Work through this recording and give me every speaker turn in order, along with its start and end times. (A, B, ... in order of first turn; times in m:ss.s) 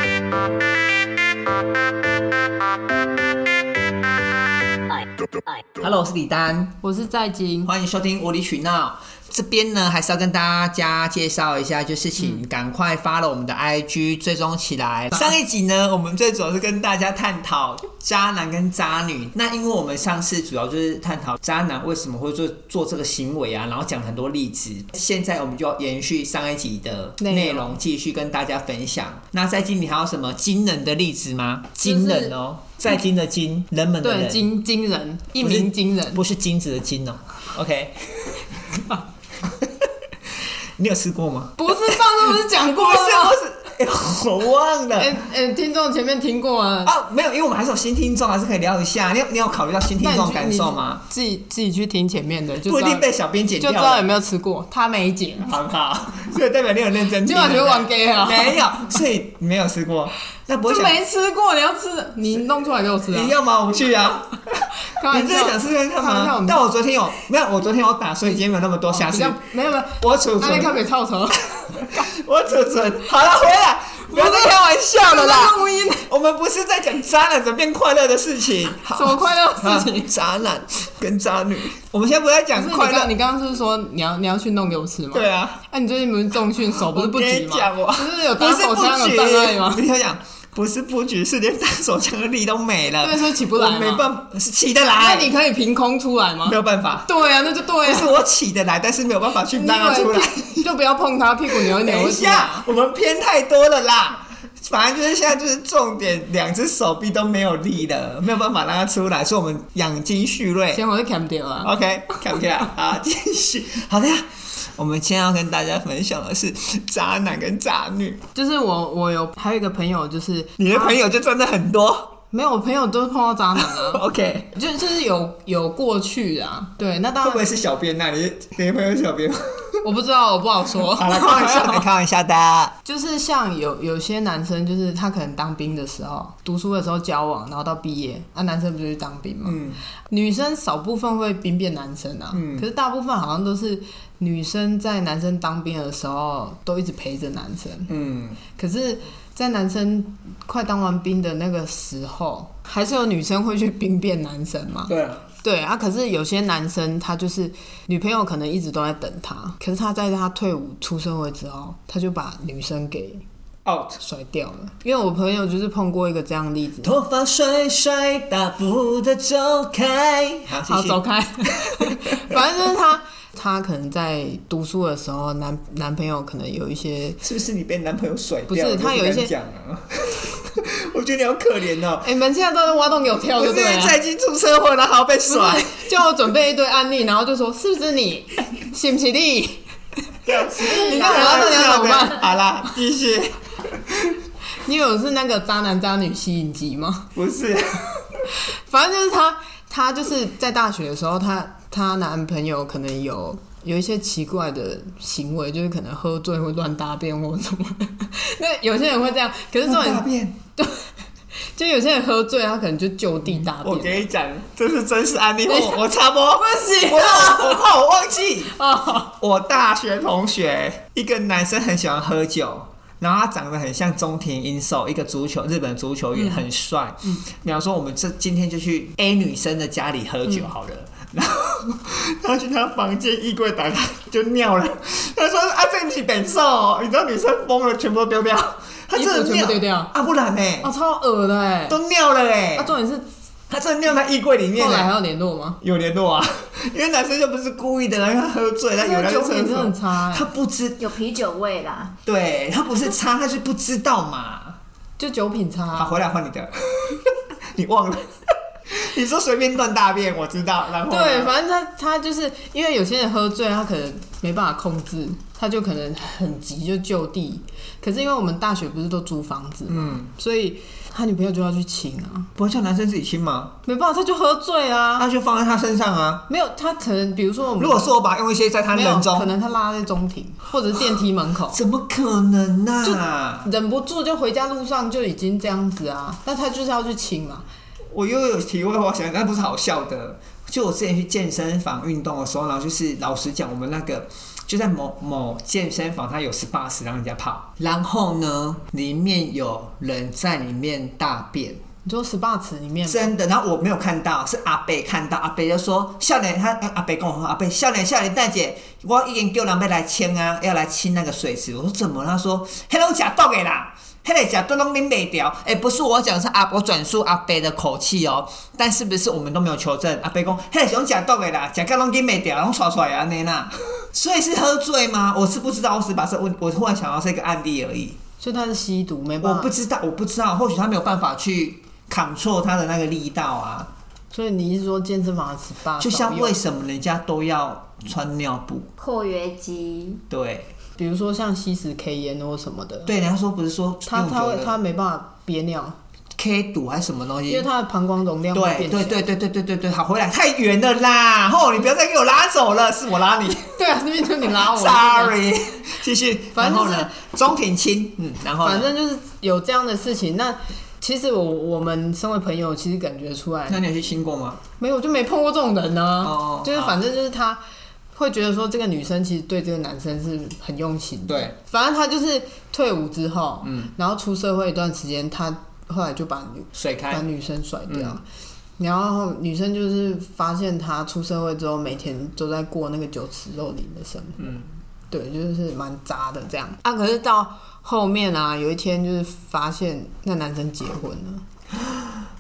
0:05.7-0:06.7 A
0:06.8-0:07.7 B
0:07.6-0:34.4 A
0:27.2-0:27.8 B
0:31.8-0:32.3 B
0:34.0-0:36.2 B
0:35.4-0:38.4 A
0:40.8-0:45.2 A
0:41.6-0:43.4 B
0:45.0-0:46.9 B
0:46.8-0:51.0 A
0:50.0-0:55.6 B
0:52.6-0:54.1 A
0:55.4-1:01.0 A
0:57.2-0:58.9 B
1:00.6-1:03.3 B
1:03.1-1:09.4 A
1:04.8-1:06.6 B
1:08.9-1:12.0 B
1:10.0-1:10.8 A
1:11.6-1:23.1 A
1:14.1-1:16.1 B
1:18.8-1:20.1 B
1:22.5-1:29.8 B
1:25.1-1:25.6 A
1:26.8-1:35.3 A
1:33.0-1:34.1 B
1:35.0-1:38.1 B
1:36.4-1:37.1 A
1:37.8-1:40.7 A
1:39.5-1:42.7 B
1:41.5-1:50.8 A
1:50.7-1:51.7 B
1:51.6-1:58.2 A
1:58.3-2:01.0 B
2:00.6-2:02.1 A
2:02.3-2:07.4 B
2:03.6-2:04.5 A
2:07.2-2:09.8 A
2:09.8-2:11.8 B
2:10.9-2:12.7 A
2:12.8-2:27.9 B
2:19.4-2:19.8 A
2:22.3-2:22.7 A
2:27.9-2:28.4 A
2:28.5-2:43.2 B
2:34.9-2:35.2 A
2:43.6-2:44.0 A
2:44.0-2:46.9 B
2:46.8-2:52.4 A
2:50.6-2:57.2 B
2:57.2-3:02.1 A
2:58.5-2:59.3 B
3:02.0-3:04.0 B
3:03.4-3:05.8 A
3:05.3-3:09.6 B
3:10.2-3:14.2 A
3:10.5-3:12.3 B
3:14.6-3:17.1 B
3:17.1-3:18.2 A
3:18.4-3:30.0 B
3:29.6-3:30.4 A
3:30.6-3:30.9 B
3:31.5-3:34.1 B
3:33.3-3:38.5 A
3:35.4-3:37.7 B
3:38.5-3:39.1 B
3:39.2-4:00.7 A
3:46.1-3:46.4 B
3:58.9-3:59.9 B
4:00.6-4:01.8 B
4:01.7-4:02.7 A
4:02.5-4:03.1 B
4:03.5-4:04.9 A
4:04.5-4:05.6 B
4:05.6-4:10.8 A
4:08.8-4:10.3 B
4:10.8-4:12.0 C
4:12.0-4:14.6 A
4:15.0-4:16.0 B
4:15.7-4:18.1 A
4:18.7-4:21.3 A
4:20.9-4:32.3 B
4:29.7-4:30.1 A
4:32.4-4:33.5 A
4:33.6-4:35.1 B
4:35.0-4:36.2 A
4:36.3-4:37.9 B
4:37.6-4:39.3 A
4:38.7-4:41.6 B
4:41.5-4:43.5 A
4:42.8-4:47.4 B
4:47.9-5:01.6 A
5:01.8-5:03.1 B
5:02.8-5:28.0 A
5:28.2-5:29.5 B
5:29.2-5:33.7 A
5:34.1-5:36.4 B
5:35.8-5:38.7 A
5:38.8-5:40.0 C
5:40.1-5:40.5 A
5:40.8-5:42.9 B
5:42.8-5:44.6 A
5:43.8-5:45.8 B
5:46.2-5:47.5 A
5:47.3-5:49.0 B
5:48.3-5:53.6 A
5:53.5-5:55.2 B
5:54.3-5:58.7 A
5:56.3-5:56.9 B
5:58.4-6:03.6 B
6:03.5-6:04.4 A
6:04.6-6:07.4 B
6:06.0-6:06.8 A
6:07.9-6:18.0 B
6:11.1-6:11.3 A
6:13.4-6:13.7 A
6:16.5-6:17.0 A
6:17.7-6:18.0 A
6:18.6-6:24.3 B
6:24.2-6:24.5 A
6:24.9-6:31.2 B